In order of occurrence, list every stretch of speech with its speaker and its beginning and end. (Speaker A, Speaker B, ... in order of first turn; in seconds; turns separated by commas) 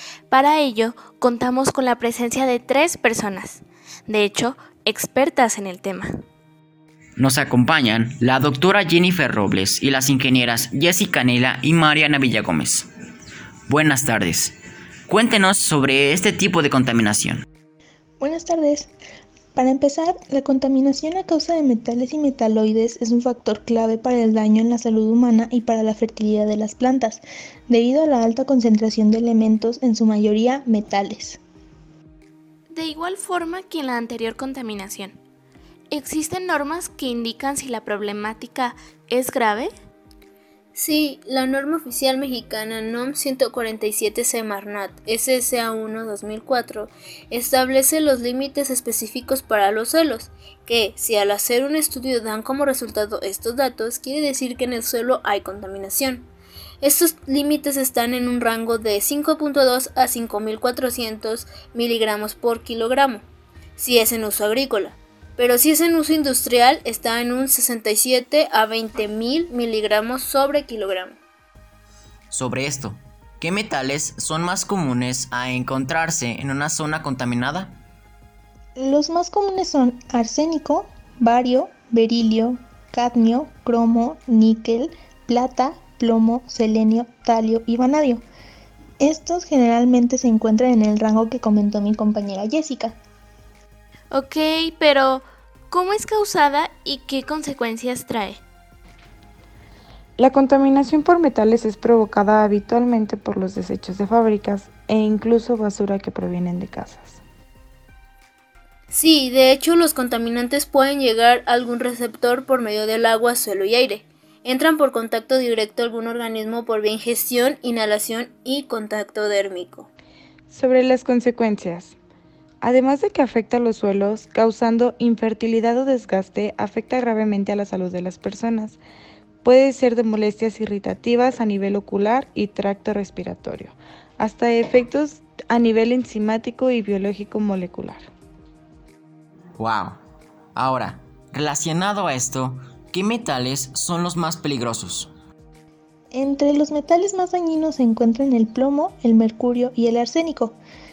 Speaker A: 0.3-6.1, Speaker B: 7.2-12.9, Speaker B: 13.7-14.6, Speaker B: 15.1-17.4, Speaker C: 18.2-18.9, Speaker C: 19.6-31.4, Speaker A: 32.7-35.2, Speaker A: 35.9-39.7, Speaker D: 40.8-56.3, Speaker D: 56.8-63.2, Speaker D: 63.8-71.2, Speaker B: 72.3-77.8, Speaker C: 78.8-88.2, Speaker C: 89.0-93.0, Speaker A: 94.1-98.4, Speaker E: 100.2-107.2, Speaker D: 108.9-119.9, Speaker E: 120.5-122.0, Speaker E: 122.6-128.8, Speaker E: 129.4-138.1, Speaker B: 139.6-140.0, Speaker B: 140.6-145.1, Speaker C: 146.1-150.6